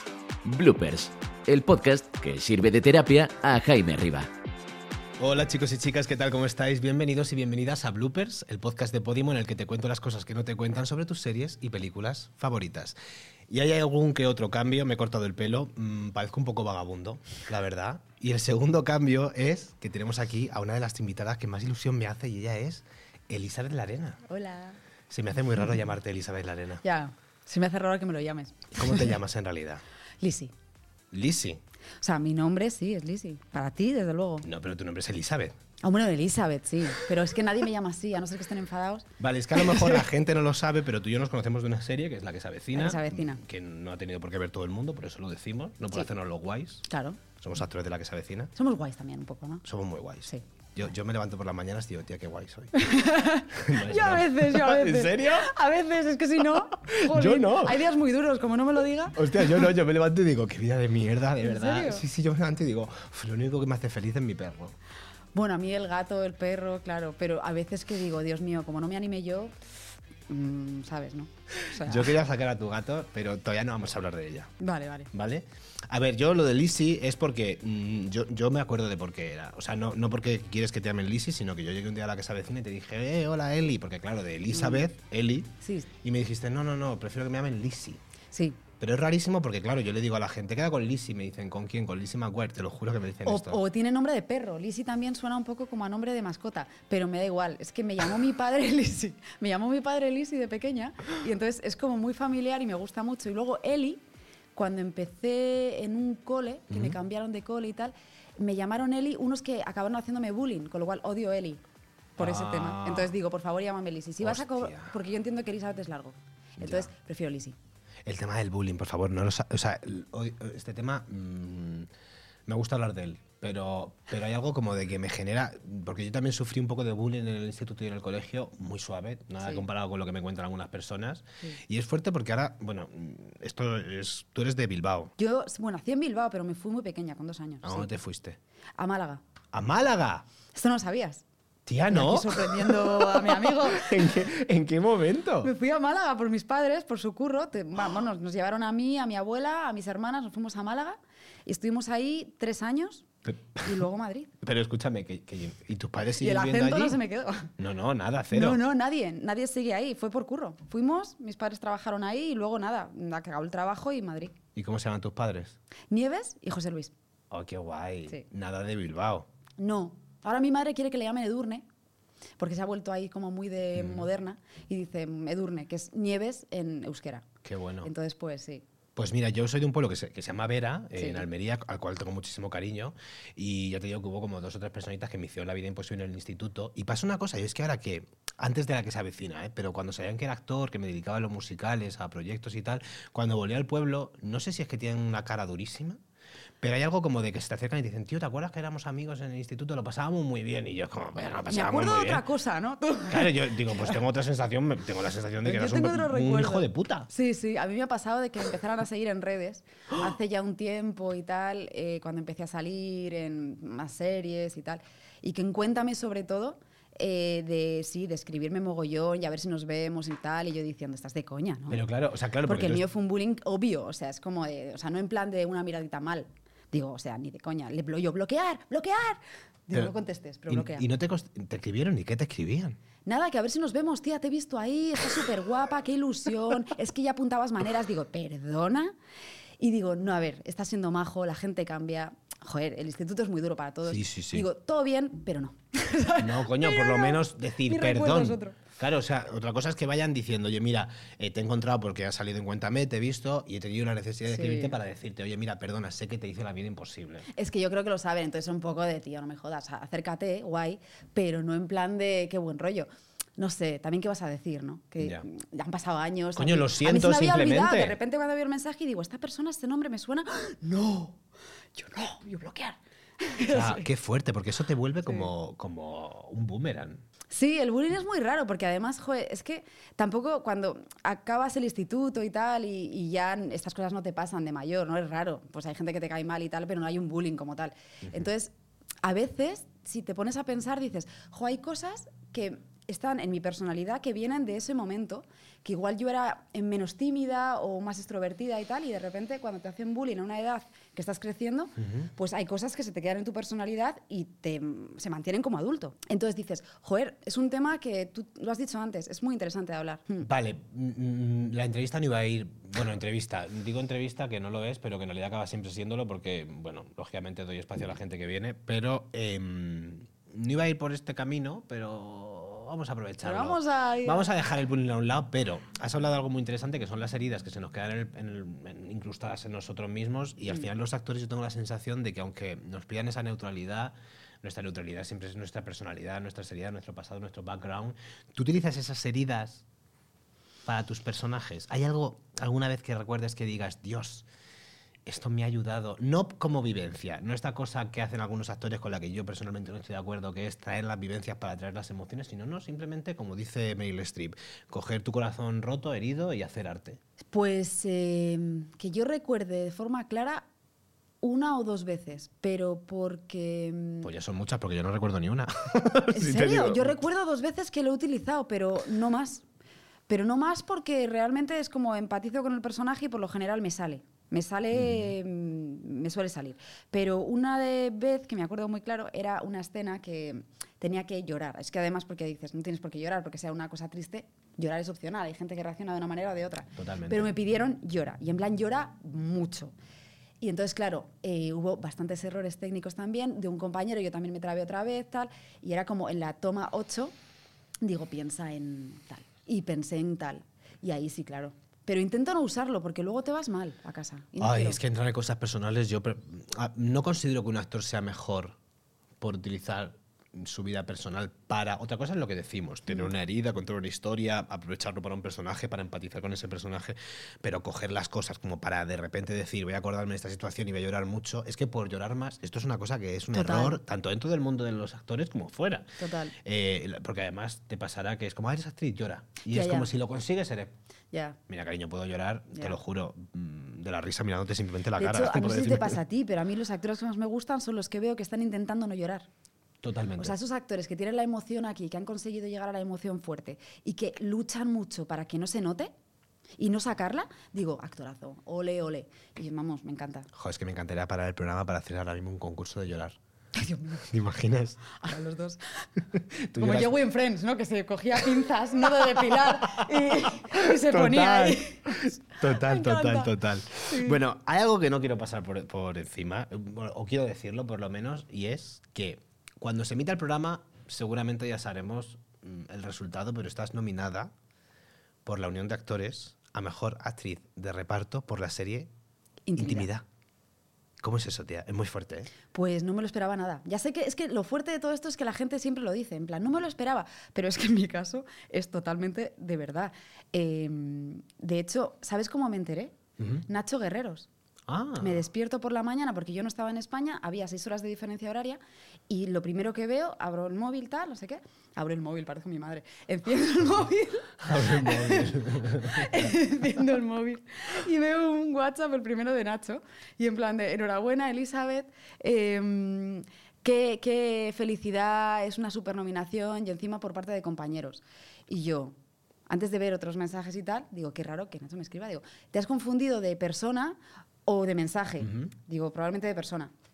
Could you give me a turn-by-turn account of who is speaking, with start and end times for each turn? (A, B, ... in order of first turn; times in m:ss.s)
0:00.4-0:04.3 A
0:05.2-0:13.0 B
0:13.5-0:24.2 B
0:24.3-0:24.8 C
0:25.1-0:26.8 B
0:26.8-0:29.1 C
0:28.7-0:29.8 B
0:30.2-0:30.5 C
0:31.1-0:31.6 B
0:32.0-0:34.5 C
0:34.4-0:35.6 B
0:35.8-0:40.0 C
0:39.2-0:48.5 B
0:42.7-0:43.4 C
0:46.9-0:47.2 C
0:48.6-0:49.6 C
0:49.6-0:52.7 B
0:52.7-0:59.7 C
0:53.5-0:55.5 B
0:56.6-0:57.8 B
0:59.2-1:04.8 B
1:01.4-1:02.0 C
1:05.3-1:09.5 C
1:10.3-1:12.1 C
1:11.8-1:14.5 B
1:14.6-1:15.1 C
1:15.1-1:28.0 B
1:24.5-1:24.8 C
1:25.6-1:25.9 C
1:28.3-1:28.6 C
1:28.8-1:33.6 B
1:33.2-1:44.0 C
1:44.5-1:51.6 C
1:46.7-1:47.0 B
1:52.2-1:53.2 B
1:52.2-1:57.6 C
1:54.2-1:54.9 B
1:56.6-1:56.9 B
1:58.0-2:01.9 B
2:02.5-2:15.1 B
2:15.2-2:17.9 C
2:17.6-2:18.4 B
2:18.8-2:19.2 C
2:19.5-2:20.3 B
2:20.5-2:21.2 C
2:21.7-2:25.5 B
2:21.9-2:24.2 C
2:25.4-2:34.3 C
2:33.3-2:33.8 B
2:34.4-2:37.0 B
2:36.2-2:37.5 C
2:37.6-2:38.6 B
2:38.3-2:44.3 C
2:44.6-2:45.6 B
2:45.9-2:46.9 C
2:47.3-2:49.3 B
2:49.6-2:51.6 C
2:52.4-2:57.2 C
2:53.8-2:54.1 B
2:57.4-2:57.9 B
2:57.8-2:58.6 C
2:59.0-3:16.0 B
3:01.0-3:01.2 C
3:16.6-3:22.2 B
3:21.5-3:24.0 C
3:23.1-3:27.1 B
3:25.4-3:41.8 C
3:41.7-3:42.8 B
3:42.4-3:50.9 C
3:50.5-3:52.8 B
3:53.0-3:59.0 C
3:59.6-4:08.6 C
4:03.9-4:04.5 B
4:06.2-4:17.3 B
4:14.3-4:14.8 C
4:17.3-4:31.2 C
4:25.0-4:25.2 B
4:26.4-4:28.0 B
4:31.8-4:33.9 C
4:33.5-4:37.0 B
4:37.3-4:48.5 C
4:49.0-5:10.3 C
5:01.8-5:02.1 B
5:10.2-5:39.6 B
5:23.2-5:24.3 C
5:40.6-5:44.3 B
5:45.0-5:57.0 B
5:57.3-6:00.4 C
6:01.2-6:04.1 C
6:04.0-6:06.9 B
6:06.1-6:09.4 C
6:10.1-6:29.7 C
6:14.7-6:15.1 B
6:26.8-6:27.3 B
6:30.4-6:37.1 C
6:37.8-6:44.8 C
6:44.4-6:48.6 B
6:49.2-7:10.7 B
7:03.3-7:03.8 C
7:06.0-7:06.3 C
7:09.5-7:09.9 C
7:11.1-7:11.4 C
7:11.5-7:16.0 B
7:15.0-7:19.3 C
7:19.8-7:20.4 B
7:20.2-7:25.9 C
7:26.6-7:30.3 C
7:30.3-7:33.2 B
7:33.5-7:34.1 C
7:34.0-7:34.8 B
7:34.9-7:35.6 C
7:36.1-7:36.9 B
7:36.6-7:44.2 C
7:40.5-7:54.3 B
7:55.2-7:58.9 B
7:59.5-7:59.9 C
7:59.6-8:00.0 B
8:01.0-8:02.3 B
8:02.5-8:14.3 C
8:13.2-8:13.4 B
8:14.7-8:15.2 B
8:15.0-8:39.0 C
8:24.4-8:26.3 B
8:39.5-8:46.7 C
8:45.2-8:45.5 B